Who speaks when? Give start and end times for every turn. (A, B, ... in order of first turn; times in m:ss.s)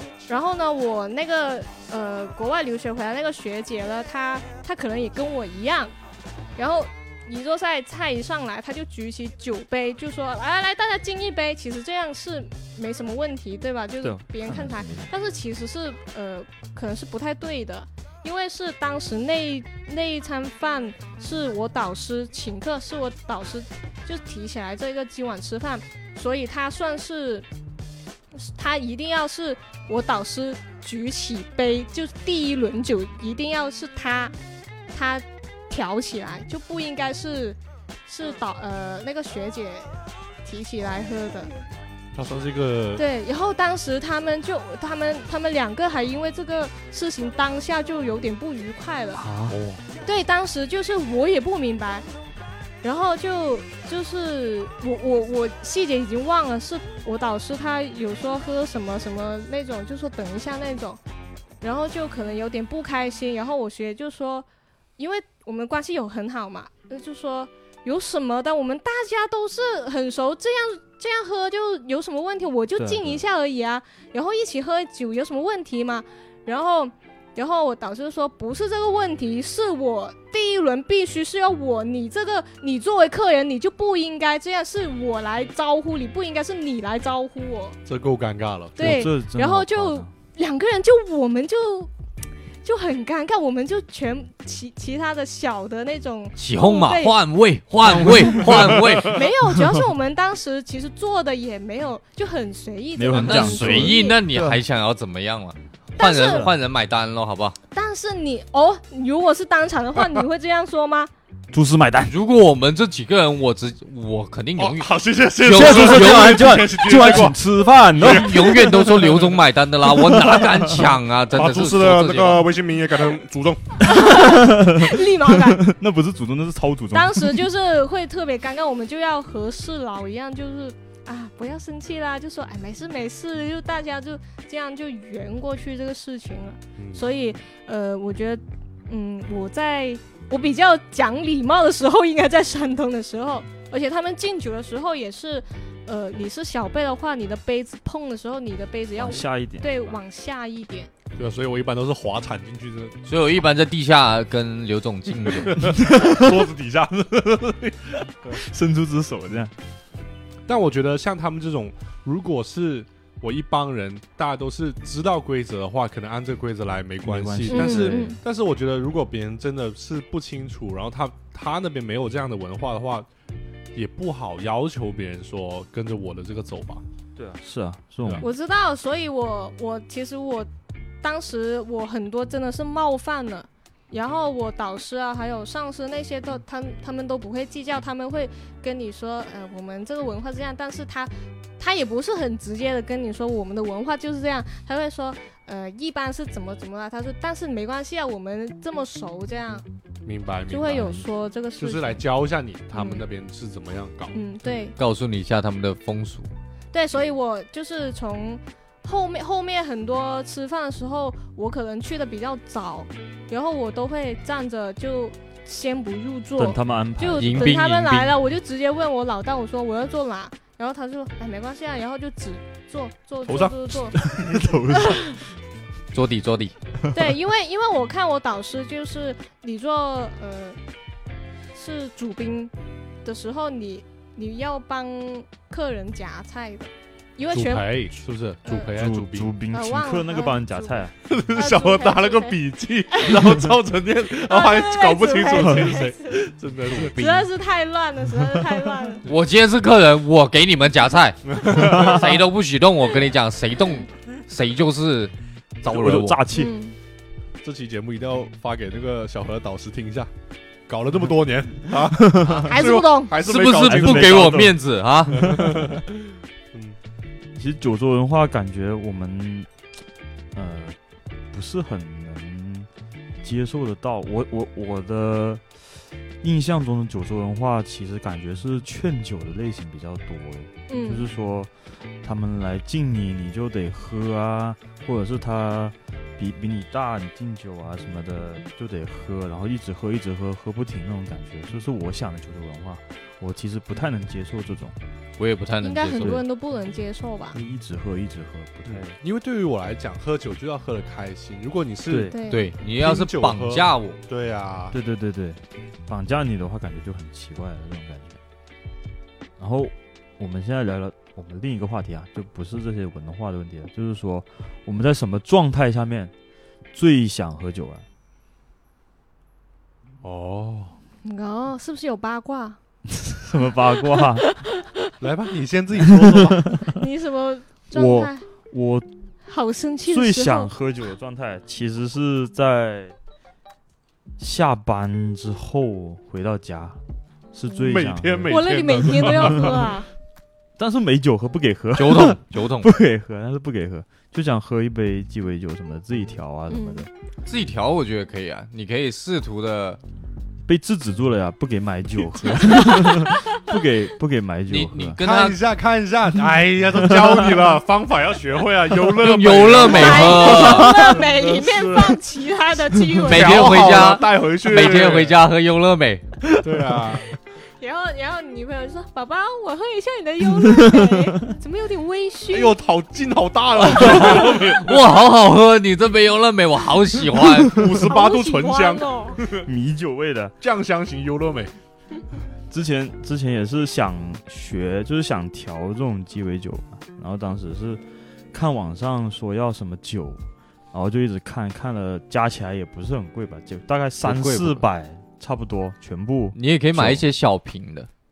0:00.3-0:05.9 A
0:06.6-0:27.5 A
0:14.0-0:15.1 B
0:28.3-0:34.3 A
0:34.9-0:41.5 A
0:42.1-0:43.0 C
0:43.0-0:49.2 A
0:49.1-0:49.6 B
0:49.5-0:49.8 C
0:50.0-0:52.0 A
0:52.8-1:01.0 A
1:01.6-1:04.5 A
1:05.0-1:27.8 A
1:12.8-1:13.2 B
1:27.8-1:29.0 C
1:28.8-1:31.9 A
1:28.8-1:30.1 B
1:32.6-1:37.2 A
1:36.4-1:39.2 D
1:38.4-1:39.2 C
1:39.0-1:44.2 A
1:43.0-1:44.6 B
1:43.1-1:47.6 D
1:46.0-1:46.5 A
1:47.7-1:51.1 A
1:51.5-1:52.1 B
1:52.0-1:56.5 D
1:54.6-1:57.4 C
1:55.5-1:59.0 B
1:57.9-1:59.3 C
1:58.0-2:02.5 D
1:59.9-2:00.9 B
2:01.3-2:03.9 C
2:03.8-2:05.6 A
2:03.9-2:07.5 B
2:06.9-2:30.9 A
2:16.8-2:17.0 C
2:29.0-2:30.0 B
2:31.2-2:33.0 C
2:33.0-2:35.7 D
2:35.3-2:38.4 C
2:35.7-2:36.4 B
2:38.3-2:39.5 B
2:40.5-2:53.1 C
2:47.0-2:48.1 B
2:47.5-2:48.2 A
2:53.7-2:56.8 C
2:57.2-2:58.3 B
2:58.2-3:00.5 A
3:01.0-3:19.6 A
3:20.0-3:21.0 C
3:20.5-3:22.0 A
3:21.6-3:24.2 C
3:22.7-3:23.0 A
3:24.1-3:24.8 A
3:24.8-3:26.3 D
3:26.7-3:44.0 A
3:36.4-3:37.6 B
3:37.2-3:38.2 D
3:43.2-3:44.4 C
3:43.9-3:45.2 B
3:44.7-3:45.2 A
3:45.9-3:46.5 D
3:46.9-3:50.6 A
3:51.5-3:52.5 A
3:53.0-3:57.7 A
3:57.3-3:59.3 C
3:58.4-3:58.7 A
3:58.7-4:00.9 B
3:59.5-4:02.4 A
4:01.0-4:07.0 C
4:02.9-4:03.2 A
4:04.2-4:09.0 A
4:06.8-4:07.2 D
4:09.0-4:16.2 D
4:11.3-4:12.1 C
4:15.6-4:16.5 B
4:16.3-4:16.8 A
4:17.4-4:20.1 C
4:20.7-4:24.5 C
4:21.9-4:22.5 B
4:22.4-4:23.1 A
4:23.2-4:25.5 D
4:23.6-4:25.7 B
4:25.1-4:26.8 C
4:27.3-4:29.5 B
4:30.3-4:30.8 B
4:31.3-4:32.7 B
4:33.2-4:35.4 B
4:36.2-4:54.8 B
4:40.7-4:41.1 A
4:55.2-4:56.2 D
4:55.6-4:57.4 A
4:56.0-4:56.2 B
4:57.3-4:58.9 B
4:58.7-5:04.8 C
5:01.9-5:02.2 B
5:02.1-5:02.5 A
5:02.3-5:04.0 D
5:04.7-5:08.2 B
5:09.4-5:16.1 B
5:16.7-5:17.8 B
5:20.0-5:20.8 C
5:21.0-5:22.6 A
5:23.0-5:24.2 B
5:23.9-5:24.7 A
5:25.0-5:26.6 C
5:25.9-5:26.7 B
5:26.6-5:28.2 A
5:27.7-5:28.9 B
5:29.2-5:30.5 A
5:29.8-5:32.9 B
5:34.2-5:36.8 B
5:37.3-5:39.5 B
5:37.5-5:39.7 C
5:38.3-5:39.9 A
5:40.6-5:46.9 B
5:41.8-5:42.7 D
5:46.5-5:46.8 A
5:47.2-5:49.8 D
5:50.4-5:55.0 B
5:52.4-5:53.4 A
5:54.5-5:55.4 D
5:55.0-6:02.0 C
5:56.8-5:57.3 B
5:58.9-6:00.8 D
5:59.6-6:03.6 A
6:03.0-6:05.2 C
6:03.0-6:06.2 D
6:06.4-6:07.1 C
6:07.6-6:12.5 A
6:10.6-6:10.9 B
6:12.3-6:14.9 C
6:13.7-6:17.6 D
6:17.4-6:19.5 C
6:17.8-6:19.2 A
6:19.4-6:20.3 B
6:20.4-6:21.5 C
6:22.5-6:37.0 B
6:34.0-6:34.6 D
6:36.3-6:37.9 D